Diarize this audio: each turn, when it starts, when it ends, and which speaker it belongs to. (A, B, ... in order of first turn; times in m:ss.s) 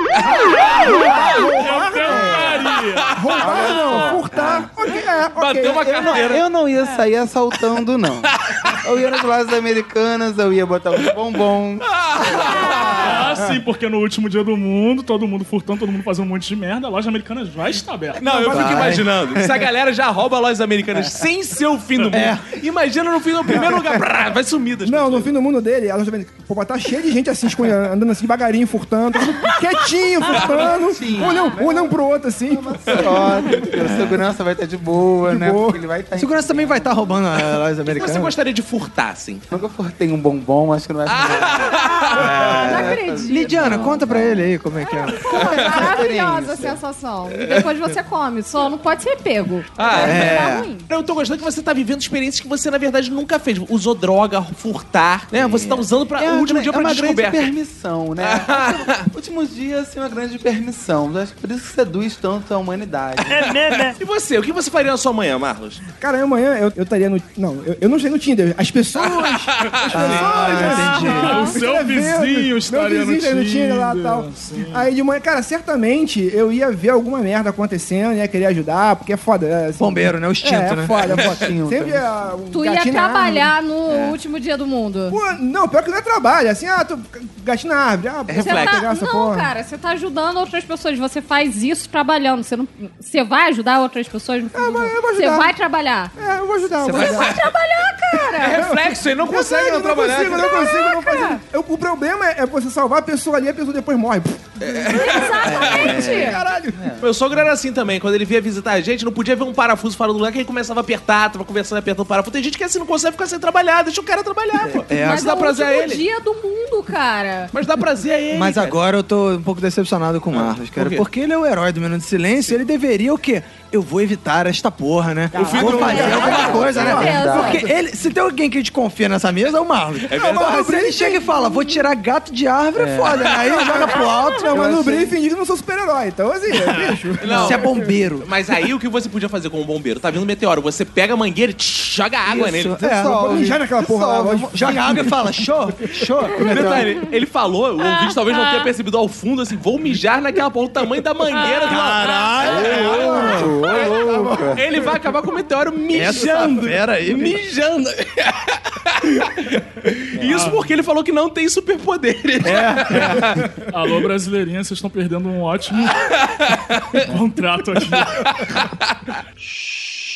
0:00.2-0:00.7 A
0:00.6-0:03.2 B
0:00.6-0:02.4 C
0:02.0-0:02.7 D
0:02.8-0:03.4 A
0:03.1-0:06.3 C
0:03.4-0:04.4 D
0:05.4-0:06.4 A
0:06.0-0:12.9 D
0:08.3-0:09.1 A
0:11.9-0:13.2 A
0:13.0-0:18.5 B
0:18.2-0:25.3 A
0:18.3-0:18.6 C
0:18.5-0:19.6 E
0:22.1-0:22.6 E
0:23.5-0:23.9 E
0:24.8-0:33.0 C
0:30.4-0:37.2 D
0:31.2-0:31.5 F
0:33.8-0:34.2 E
0:35.2-0:35.8 C
0:36.2-0:38.3 E
0:37.8-0:39.4 A
0:39.5-0:44.6 D
0:41.1-0:42.2 A
0:41.8-0:43.7 F
0:42.2-0:45.4 E
0:44.9-0:50.9 F
0:45.4-0:46.8 D
0:45.4-0:45.8 A
0:49.8-0:57.5 A
0:49.9-0:50.3 D
0:50.0-0:50.7 E
0:55.3-0:55.8 E
0:56.2-1:03.5 D
0:58.2-0:59.1 A
1:03.9-1:05.8 A
1:06.0-1:23.5 C
1:09.0-1:10.2 A
1:09.9-1:11.4 E
1:10.6-1:14.9 B
1:11.2-1:11.5 F
1:19.8-1:21.4 E
1:21.1-1:22.0 D
1:22.5-1:25.2 F
1:23.9-1:24.2 E
1:25.1-1:29.5 C
1:28.3-1:28.8 A
1:28.4-1:36.1 F
1:34.5-1:35.5 C
1:36.1-1:37.4 C
1:36.8-1:38.6 F
1:36.9-1:37.4 A
1:38.1-1:45.0 C
1:38.4-1:40.6 A
1:40.4-1:41.4 F
1:44.6-1:46.2 A
1:44.9-1:46.4 F
1:45.4-1:46.4 E
1:46.0-1:46.9 C
1:46.6-1:47.1 D
1:47.0-1:56.0 A
1:54.7-1:55.4 E
1:55.0-1:57.5 F
1:57.5-1:58.8 A
1:58.3-2:14.8 E
2:00.3-2:01.0 A
2:05.3-2:06.7 A
2:05.4-2:07.5 C
2:05.5-2:07.6 F
2:05.9-2:07.7 D
2:10.0-2:10.6 A
2:10.2-2:11.3 C
2:11.0-2:11.8 F
2:12.7-2:13.3 D
2:13.4-2:13.9 A
2:13.7-2:17.8 C
2:14.5-2:15.1 D
2:16.7-2:18.3 E
2:17.2-2:17.7 A
2:18.2-2:22.8 A
2:22.3-2:26.9 E
2:22.8-2:25.3 C
2:22.8-2:23.4 D
2:24.6-2:25.0 D
2:26.4-2:33.5 A
2:31.6-2:34.6 E
2:32.4-2:34.7 D
2:34.5-2:43.5 A
2:35.9-2:37.4 E
2:40.2-2:40.7 B
2:42.4-2:43.4 E
2:43.7-2:46.0 B
2:45.9-2:47.0 A
2:47.0-2:48.3 B
2:47.9-2:49.0 A